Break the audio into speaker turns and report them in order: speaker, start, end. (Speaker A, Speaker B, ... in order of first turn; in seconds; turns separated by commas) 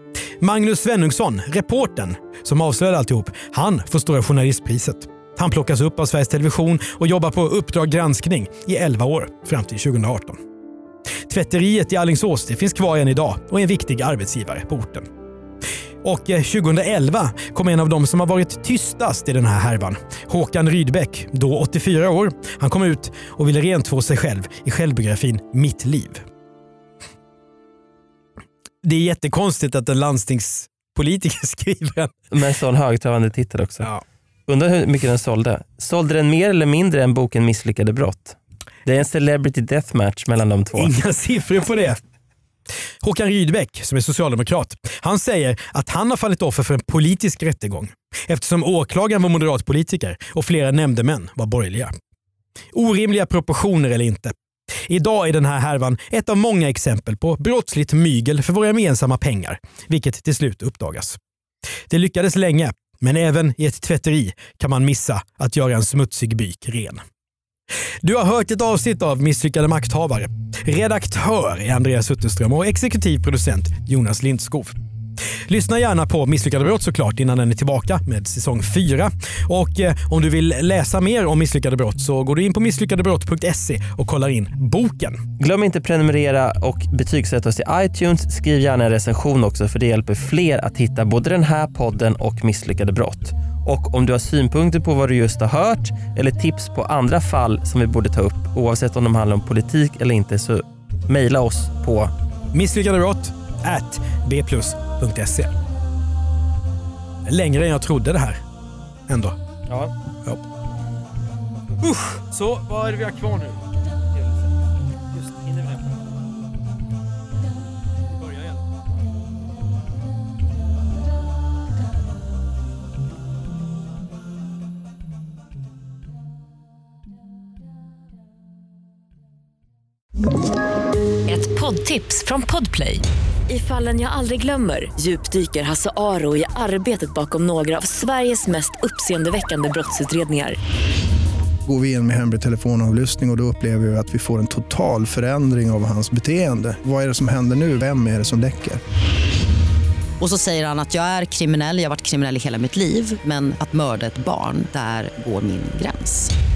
Speaker A: 0.4-10.4, Speaker A: 11.3-15.1, Speaker A: 16.0-26.2, Speaker A: 28.8-32.2, Speaker B: 32.3-33.9, Speaker B: 34.5-40.9, Speaker A: 40.8-42.0, Speaker A: 43.0-51.9, Speaker A: 52.7-61.2, Speaker A: 61.9-67.0, Speaker A: 68.0-74.8, Speaker A: 75.5-85.3, Speaker B: 85.4-102.1, Speaker A: 102.5-105.5, Speaker A: 107.3-108.4, Speaker A: 109.1-109.4, Speaker B: 109.7-109.9, Speaker A: 111.8-113.7, Speaker A: 115.2-115.5, Speaker A: 118.1-118.6, Speaker C: 131.3-140.6, Speaker D: 141.7-148.8, Speaker E: 150.2-156.3